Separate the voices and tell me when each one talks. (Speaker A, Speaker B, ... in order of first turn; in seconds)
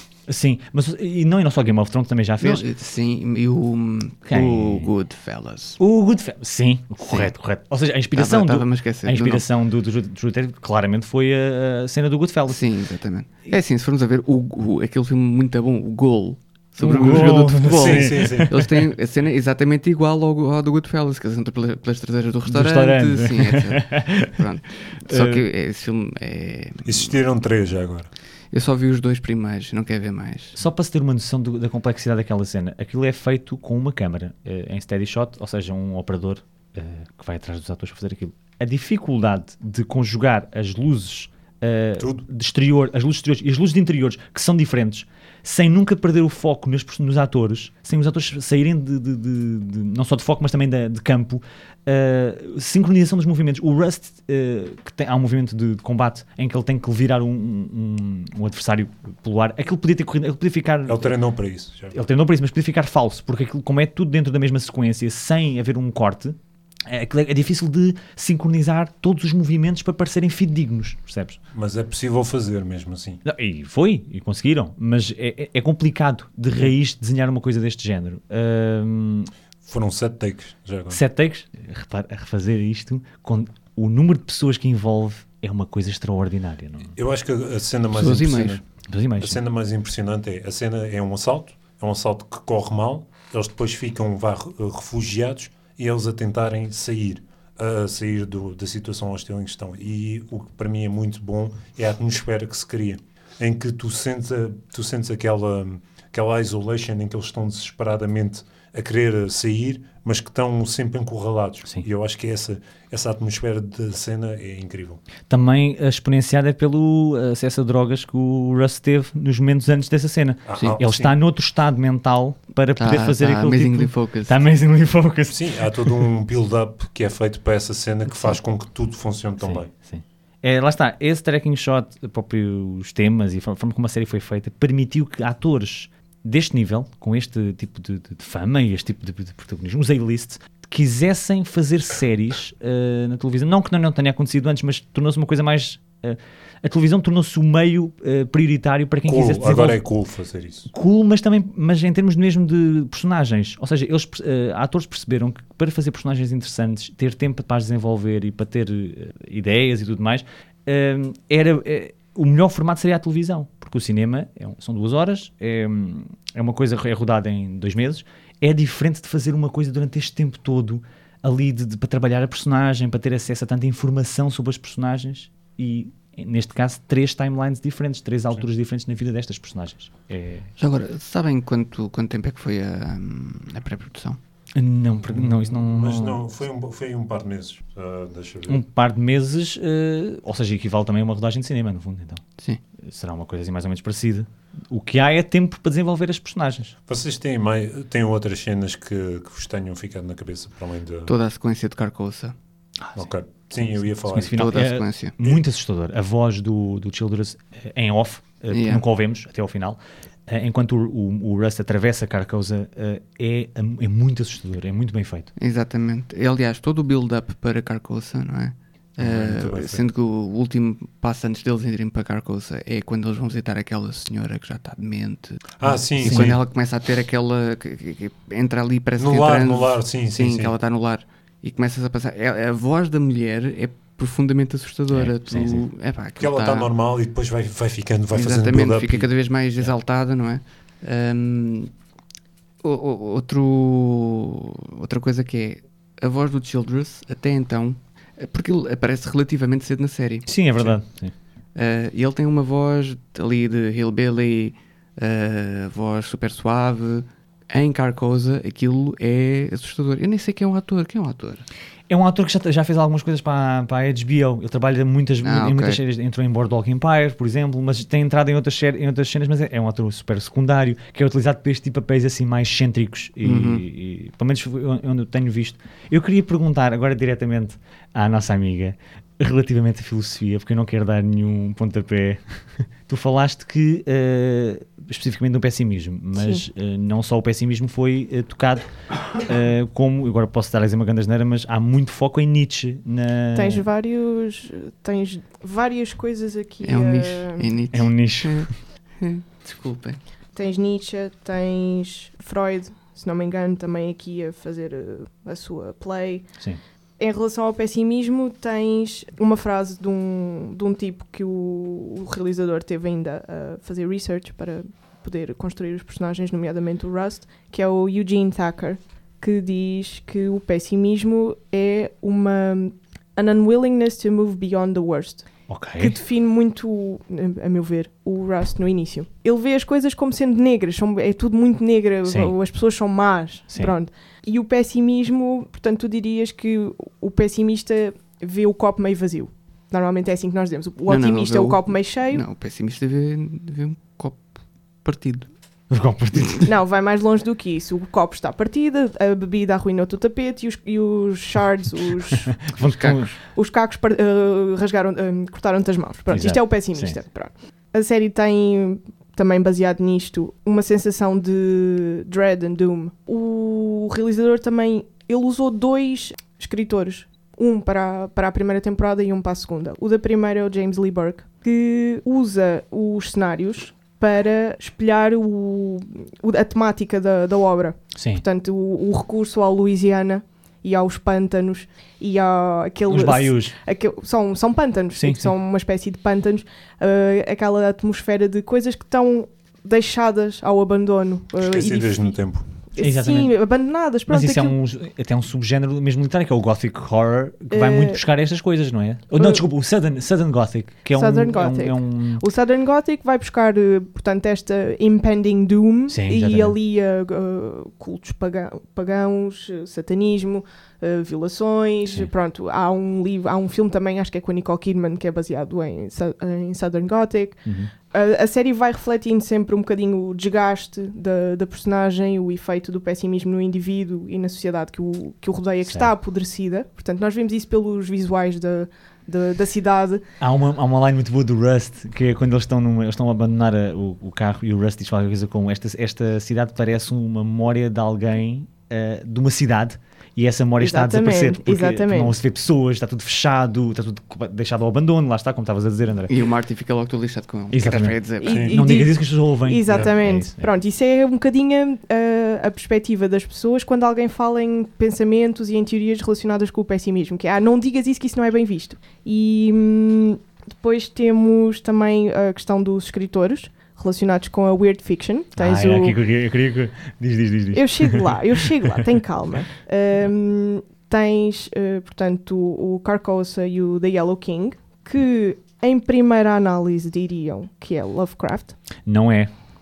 Speaker A: 0.3-2.6, 4.3-4.9, 5.8-12.6, 16.8-18.7, 22.5-24.4, 25.1-25.4, 30.6-61.2, 61.9-71.4, 73.2-79.3, 80.9-87.0, 88.9-89.4, 115.3-126.0, 129.4-149.8, 150.7-180.5, 184.6-186.2, 188.5-192.2, 192.8-196.7, 202.8-203.1, 203.8-215.3, 226.0-226.4, 234.9-235.7, 250.3-251.1, 261.9-293.6, 297.7-298.5, 325.5-326.0, 332.1-332.3, 345.7-346.5, 352.4-353.1, 356.1-357.0, 377.9-378.2, 382.9-383.6, 384.9-385.3, 392.8-393.3, 394.1-402.2, 405.9-406.6, 417.5-417.7, 430.2-446.1, 447.5-450.5, 465.4-468.5, 478.9-479.3
Speaker B: 2.4-5.8, 7.0-7.3, 8.2-9.4, 12.5-27.2, 28.5-30.6, 87.9-88.6, 122.8-124.4, 180.6-184.2, 201.1-202.3, 204.3-205.1, 208.5-208.8, 215.4-236.7, 238.1-241.7, 242.6-250.8, 251.6-261.4, 265.2-265.8, 273.2-273.6, 296.6-300.0, 340.9-344.3, 344.8-345.3, 352.6-353.1, 446.1-448.5
Speaker C: 17.1-18.6, 26.9-28.1, 42.0-42.3, 60.9-62.0, 71.5-73.2, 79.6-81.0, 87.0-88.6, 89.2-115.0, 120.5-121.1, 125.3-129.7, 149.1-150.7, 185.0-188.6, 196.9-201.1, 202.9-204.6, 219.0-219.9, 225.6-226.4, 229.0-230.5, 236.2-239.1, 391.4-392.4, 448.3-448.6
Speaker D: 286.2-286.4, 293.4-297.5, 300.4-306.3, 307.0-325.3, 325.8-342.2, 346.4-352.4, 353.3-392.1, 392.7-394.5, 397.5-398.0, 399.2-399.4, 400.9-430.0, 440.6-442.2, 448.2-466.0, 467.5-478.6